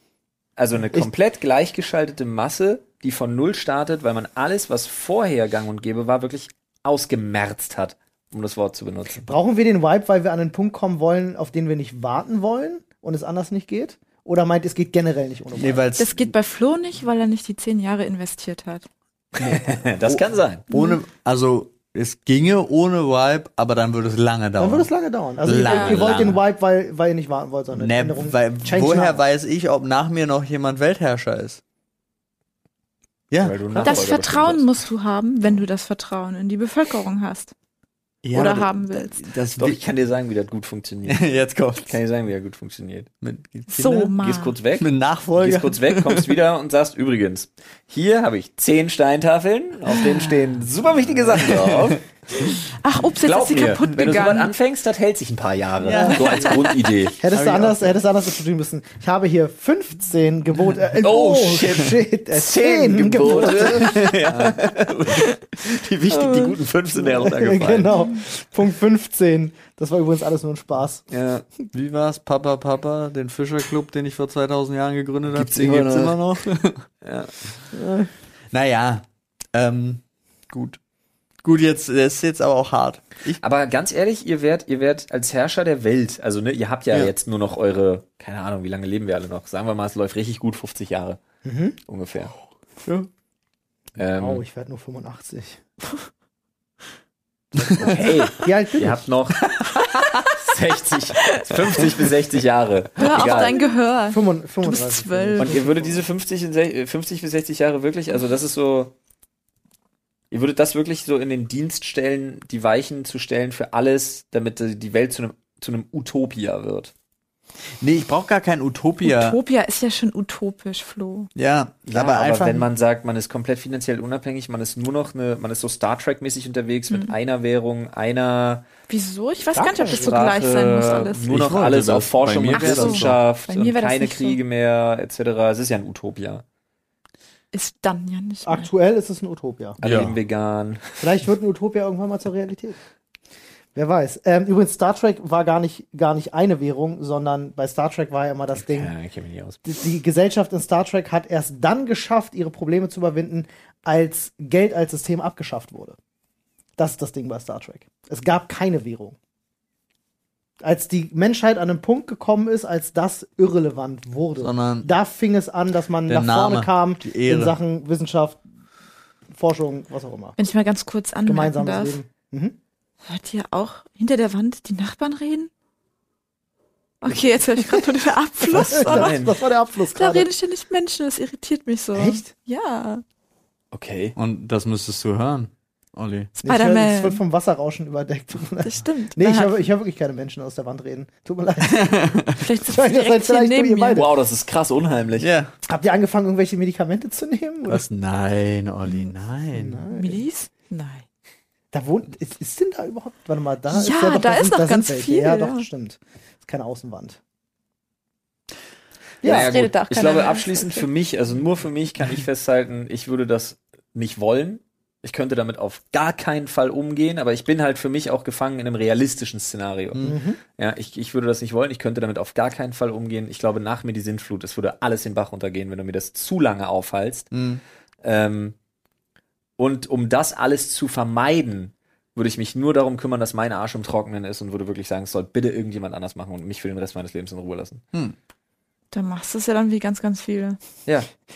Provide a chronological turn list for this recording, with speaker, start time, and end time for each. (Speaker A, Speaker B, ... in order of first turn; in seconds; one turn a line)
Speaker A: 0.6-9.3
Speaker B: 9.3-15.8
Speaker C: 15.6-16.3
Speaker D: 16.0-18.9
Speaker A: 19.4-20.7
Speaker C: 20.1-24.9
Speaker D: 20.7-21.0
Speaker B: 24.6-29.2
Speaker C: 25.4-26.4
Speaker D: 25.6-26.0
Speaker C: 27.7-31.6
Speaker C: 33.3-34.1
Speaker A: 33.4-34.7
Speaker D: 33.8-37.5
Speaker C: 38.2-39.8
Speaker D: 38.3-39.2
Speaker A: 39.6-41.3
Speaker C: 41.1-41.9
Speaker A: 41.8-43.1
Speaker C: 43.2-44.1
Speaker D: 43.7-44.5
Speaker A: 44.2-52.0
Speaker C: 44.8-46.4
Speaker C: 49.9-50.4
Speaker C: 51.3-52.0
Speaker D: 52.6-54.5
Speaker A: 53.2-57.2
Speaker C: 55.8-56.7
Speaker D: 55.9-56.7
Speaker B: 57.2-64.1
Speaker C: 57.3-58.0
Speaker A: 61.0-67.9
Speaker C: 63.6-64.7
Speaker D: 66.1-66.6
Speaker B: 67.0-71.1
Speaker A: 71.1-71.5
Speaker C: 71.7-76.9
Speaker A: 75.3-76.2
Speaker A: 77.0-77.3
Speaker B: 77.7-78.1
Speaker C: 78.5-80.8
Speaker C: 81.4-83.4
Speaker A: 83.4-91.2
Speaker B: 91.5-91.8
Speaker A: 91.9-92.3
Speaker A: 94.0-94.4
Speaker B: 94.1-95.6
Speaker C: 97.6-98.0
Speaker B: 97.6-99.0
Speaker A: 97.7-99.6
Speaker C: 99.8-100.2
Speaker A: 100.3-103.6
Speaker D: 101.2-101.8
Speaker D: 103.0-105.6
Speaker B: 103.3-103.5
Speaker B: 104.1-106.0
Speaker A: 105.4-108.9
Speaker A: 110.3-116.9
Speaker C: 117.8-119.4
Speaker D: 119.0-121.3
Speaker C: 121.4-122.7
Speaker A: 121.9-128.7
Speaker D: 128.9-131.3
Speaker B: 129.6-130.2
Speaker A: 129.9-136.4
Speaker C: 131.3-133.2
Speaker D: 132.5-134.4
Speaker D: 137.5-138.7
Speaker B: 138.4-139.8
Speaker A: 139.8-141.1
Speaker C: 139.8-140.2
Speaker B: 141.0-142.8
Speaker B: 143.8-148.9
Speaker A: 148.6-149.6
Speaker B: 149.6-156.0
Speaker B: 156.8-159.2
Speaker B: 160.6-168.4
Speaker C: 164.4-164.9
Speaker C: 166.1-167.6
Speaker B: 169.3-170.3
Speaker D: 170.4-172.0
Speaker B: 171.3-172.6
Speaker D: 173.1-175.5
Speaker D: 177.0-179.2
Speaker B: 178.5-180.3
Speaker A: 178.8-179.4
Speaker D: 179.9-183.0
Speaker B: 181.9-182.3
Speaker A: 183.7-184.2
Speaker C: 184.2-186.3
Speaker B: 186.4-194.1
Speaker D: 186.4-187.2
Speaker D: 188.6-189.7
Speaker C: 191.7-192.4
Speaker D: 192.4-194.1
Speaker A: 193.9-195.3
Speaker C: 195.2-195.5
Speaker B: 195.7-197.8
Speaker C: 197.7-199.8
Speaker B: 199.5-200.2
Speaker D: 199.9-201.0
Speaker B: 201.7-207.2
Speaker D: 203.7-205.7
Speaker B: 209.2-209.6
Speaker A: 209.2-227.3
Speaker D: 209.2-210.9
Speaker B: 220.0-220.4
Speaker C: 227.3-227.6
Speaker A: 228.0-228.6
Speaker A: 229.6-237.8
Speaker D: 238.9-240.6